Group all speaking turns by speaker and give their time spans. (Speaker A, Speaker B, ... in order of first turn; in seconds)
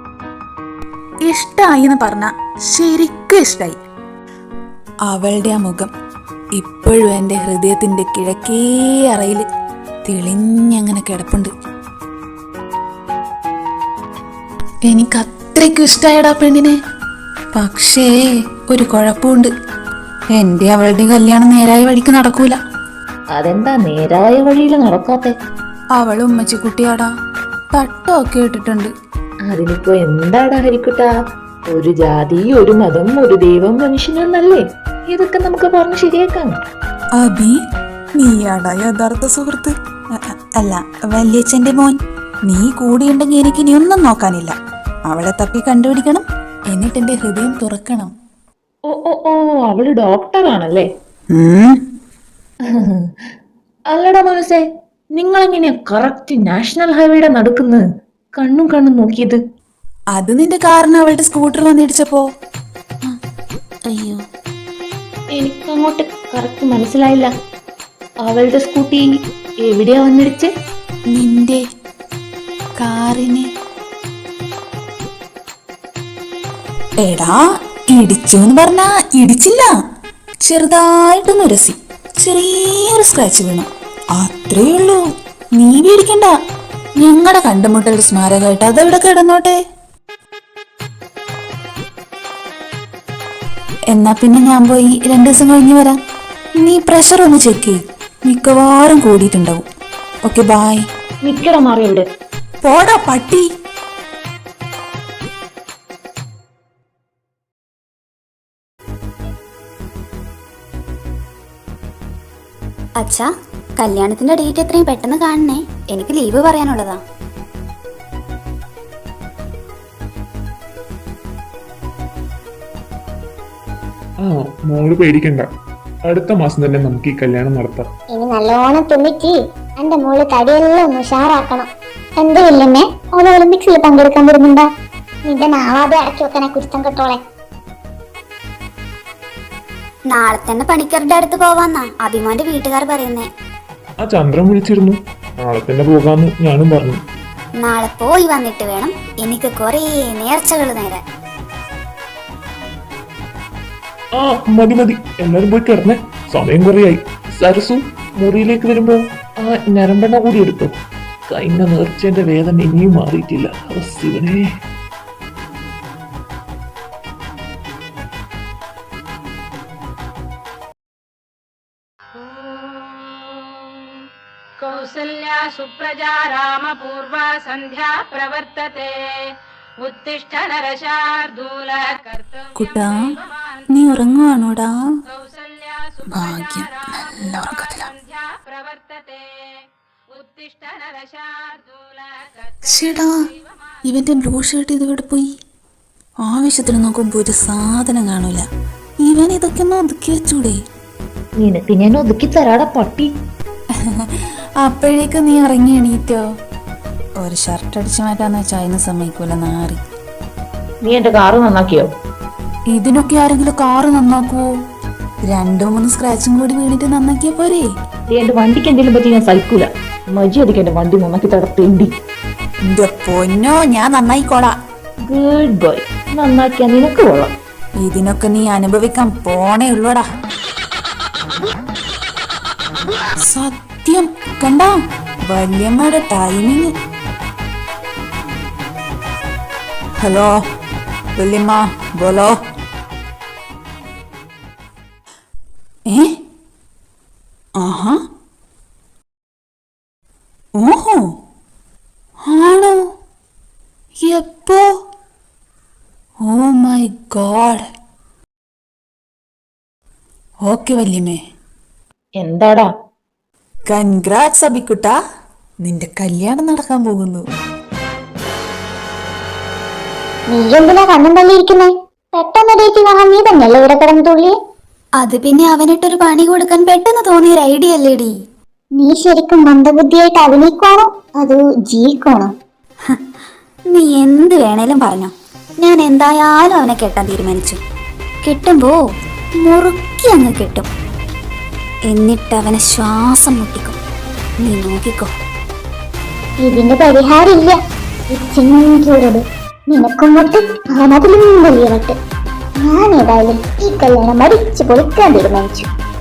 Speaker A: 1.3-3.8, 5.1-5.9, 6.5-9.4, 10.0-11.5, 14.9-16.8, 17.5-18.1, 18.7-19.5, 20.3-22.6, 25.9-27.1, 27.7-28.9, 37.2-37.5, 38.1-44.5, 45.1-48.1, 51.3-51.8, 60.1-62.2, 63.9-64.2, 71.1-71.6, 72.8-73.5, 77.0-79.7, 80.4-85.0, 85.5-86.3, 87.0-89.6, 93.9-96.0, 96.6-99.6, 100.2-100.8, 102.6-103.4, 182.6-183.1, 183.7-184.7, 186.1-187.9, 192.6-193.2, 193.8-195.3, 196.2-198.4, 199.0-200.6, 203.8-206.2, 207.2-209.8, 212.7-214.5, 215.2-217.7, 222.7-224.5, 227.8-230.0, 233.2-236.7, 240.0-240.3, 241.2-242.4, 247.6-248.0, 250.6-251.1, 252.2-252.8, 254.0-254.6, 256.2-257.6, 260.5-261.2, 263.7-264.9, 265.6-267.2
Speaker B: 23.3-25.3, 29.5-31.1, 31.7-36.5, 48.9-50.9, 52.7-53.0, 53.9-54.6, 55.1-57.8, 58.4-59.4, 65.3-67.3, 68.2-69.1, 69.6-70.5, 101.2-102.0, 201.4-203.1, 210.8-211.9, 218.1-221.9, 225.1-227.3, 262.2-262.7
Speaker C: 113.0-117.0, 140.1-143.3, 147.6-151.0, 275.0-278.1, 283.7-287.6, 288.2-288.8, 289.4-290.7, 291.9-293.8, 294.4-295.1
Speaker D: 124.2-125.5, 126.1-127.9, 144.0-147.0, 154.1-160.7, 161.3-164.4
Speaker E: 128.1-134.7, 135.3-137.2, 270.3-274.3, 278.8-282.3, 296.4-297.6, 298.1-301.9, 302.6-305.7
Speaker F: 174.6-178.8, 179.9-182.4, 185.6-185.9, 188.3-189.2, 190.2-191.8